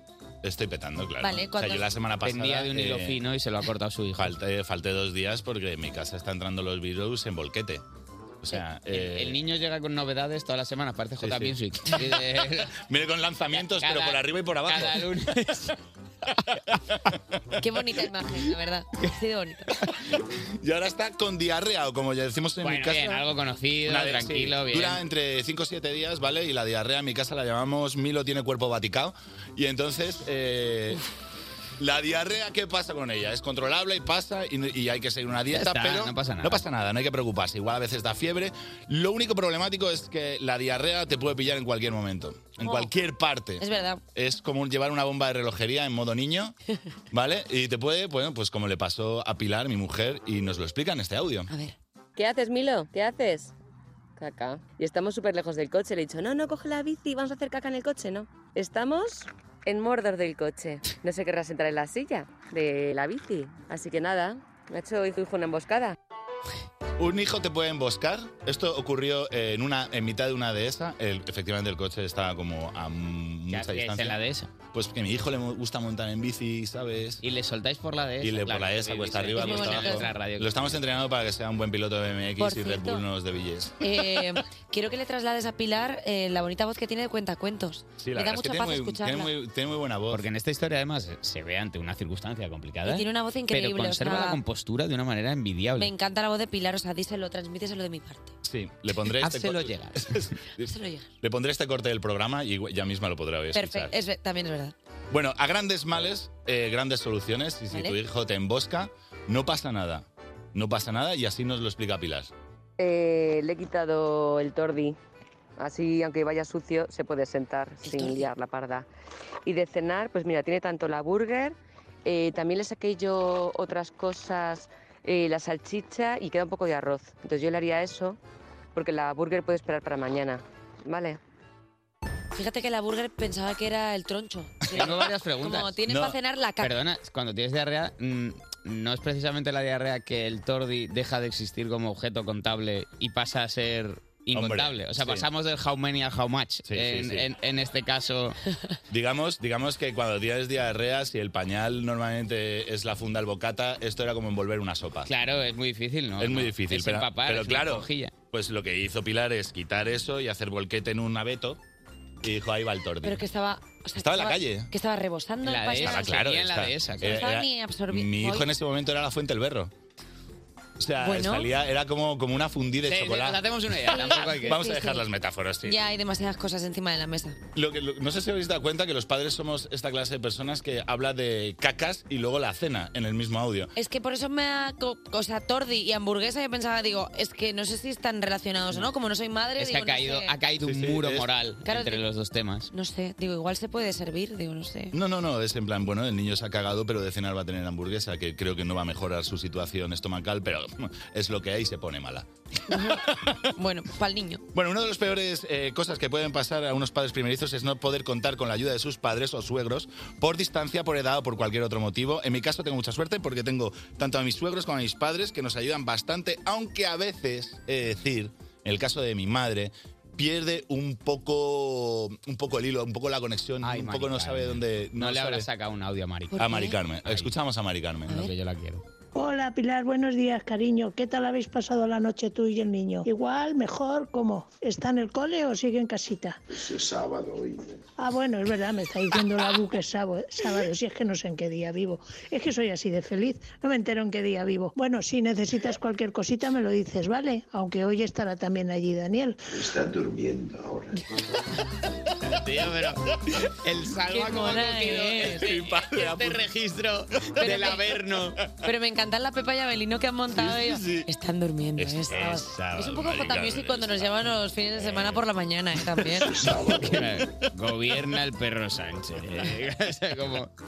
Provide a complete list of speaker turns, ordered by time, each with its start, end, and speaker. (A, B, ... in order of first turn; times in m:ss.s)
0:00.4-0:03.2 A
0:01.2-0:01.9 B
0:02.2-0:04.3 C
0:04.2-0:07.8 A
0:08.4-0:09.4 A
0:08.9-0:12.7 C
0:11.2-0:11.6 A
0:12.7-0:15.0 A
0:13.5-0:15.8 C
0:16.7-0:17.2 A
0:17.6-0:19.7 B
0:20.4-0:23.3 A
0:22.6-0:25.0 C
0:23.9-0:31.0 A
0:31.8-0:46.6 A
0:35.5-0:36.6 C
0:42.6-0:42.9 B
0:43.6-0:44.0 B
0:47.1-0:51.5 A
0:51.5-0:51.8 B
0:52.2-0:53.5 D
0:54.2-1:06.0 D
1:07.0-1:14.2 A
1:13.5-1:14.5 C
1:14.7-1:17.2 A
1:17.2-1:20.8 C
1:18.2-1:24.0 A
1:19.4-1:20.1 B
1:22.4-1:23.0 B
1:23.8-1:29.3 B
1:28.0-1:30.2 A
1:30.1-1:35.9 C
1:32.8-1:34.4 B
1:35.8-1:38.3 B
1:38.4-1:43.9 A
1:39.2-1:40.3 C
1:40.6-1:41.1 B
1:43.5-1:44.8 B
1:45.1-1:52.3 A
1:52.8-1:55.0 D
1:55.6-1:58.9 D
1:57.8-1:58.3 B
1:59.4-2:08.2 D
2:08.7-2:11.2 D
2:12.3-2:16.7 B
2:14.7-2:15.8 C
2:15.9-2:16.2 A
2:16.6-2:28.4 C
2:24.3-2:25.3 A
2:26.6-2:27.3 A
2:28.9-2:35.1 A
2:35.0-2:38.1 C
2:36.2-2:41.6 A
2:42.2-2:43.2 A
2:43.0-2:46.2 B
2:44.0-2:44.7 A
2:45.4-2:47.3 C
2:45.8-2:49.7 A
2:47.0-2:48.5 B
2:50.8-2:55.8 A
2:51.0-2:51.5 B
2:52.9-2:54.6 C
2:53.9-2:55.0 B
2:55.6-2:57.4 B
2:57.5-3:03.7 A
3:03.8-3:10.4 B
3:09.6-3:12.7 C
3:10.6-3:11.3 A
3:11.6-3:12.0 B
3:12.7-3:14.9 B
3:14.9-3:23.4 A
3:22.7-3:24.4 B
3:24.5-3:45.5 A
3:43.6-3:47.3 C
3:46.3-3:46.8 B
3:46.4-3:48.3 A
3:48.1-3:48.8 C
3:49.1-3:56.4 E
3:56.5-3:57.8 F
3:58.0-4:09.4 E
4:09.5-4:11.0 F
4:12.3-4:18.4 C
4:14.1-4:15.5 B
4:15.2-4:16.4 A
4:17.3-4:17.8 A
4:17.4-4:17.8 B
4:18.6-4:26.3 B
4:20.3-4:21.1 A
4:21.8-4:24.2 A
4:24.8-4:25.2 A
4:26.2-4:27.2 F
4:26.7-4:30.5 C